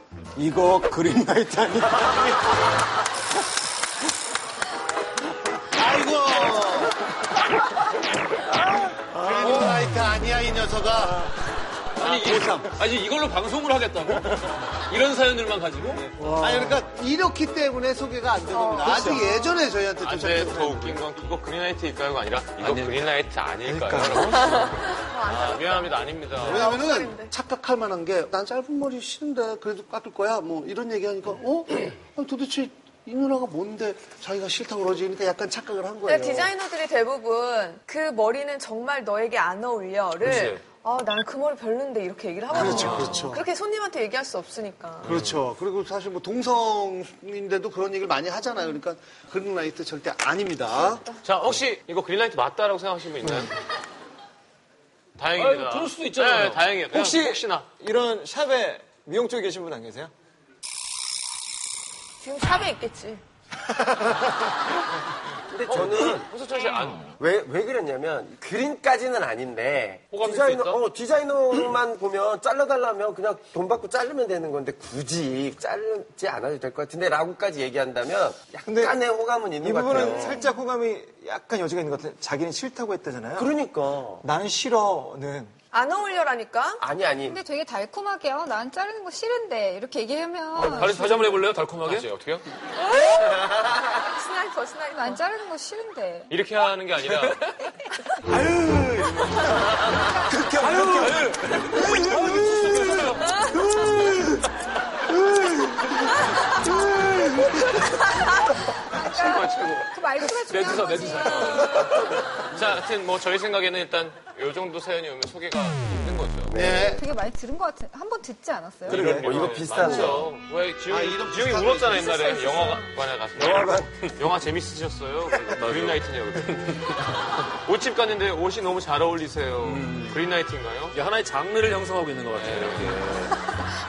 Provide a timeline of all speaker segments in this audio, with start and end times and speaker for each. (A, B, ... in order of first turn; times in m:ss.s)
0:00.4-0:02.4 A
0:05.7-0:07.0 B
0:09.1-0:11.3 B
0:12.0-0:16.3 C
0:12.0-0:12.7 B
0:16.2-0:21.0 B
0:18.5-0:19.7 D
0:20.0-0:26.7 E
0:22.6-0:23.1 C
0:23.6-0:24.7 A
0:24.3-0:27.3 D
0:26.5-0:36.5 B
0:36.0-0:45.2 D
0:40.3-0:40.6 C
0:42.5-0:43.5 B
0:42.5-0:43.3 E
0:45.0-0:51.0 B
0:50.8-0:51.2 D
0:51.2-0:53.5 E
0:55.2-0:57.7 E
0:55.4-0:56.6 C
0:56.9-1:00.1 A
1:02.2-1:03.2 D
1:05.5-1:06.3 F
1:05.7-1:07.2 E
1:07.2-1:20.4 F
1:10.1-1:10.8 E
1:18.7-1:19.0 A
1:19.6-1:23.5 A
1:20.0-1:20.4 D
1:23.4-1:24.2 F
1:24.2-1:25.5 A
1:25.7-1:26.8 D
1:26.8-1:27.4 F
1:27.3-1:31.4 G
1:30.6-1:32.1 C
1:30.8-1:32.4 E
1:32.8-1:35.3 D
1:34.9-1:36.4 G
1:36.3-1:37.6 E
1:38.3-1:39.5 A
1:40.1-1:41.2 A
1:40.5-1:43.4 C
1:48.3-1:52.0 G
1:49.1-1:49.9 E
1:50.4-1:51.9 C
1:52.4-1:56.8 E
1:56.5-1:57.0 F
1:56.6-1:57.0 B
1:56.9-1:59.2 G
1:58.9-2:11.0 E
1:58.9-2:00.3 F
1:59.2-1:59.5 C
2:00.9-2:02.7 B
2:02.1-2:02.9 G
2:03.4-2:03.9 F
2:05.5-2:06.9 C
2:09.6-2:10.2 C
2:10.9-2:13.4 C
2:12.3-2:13.0 E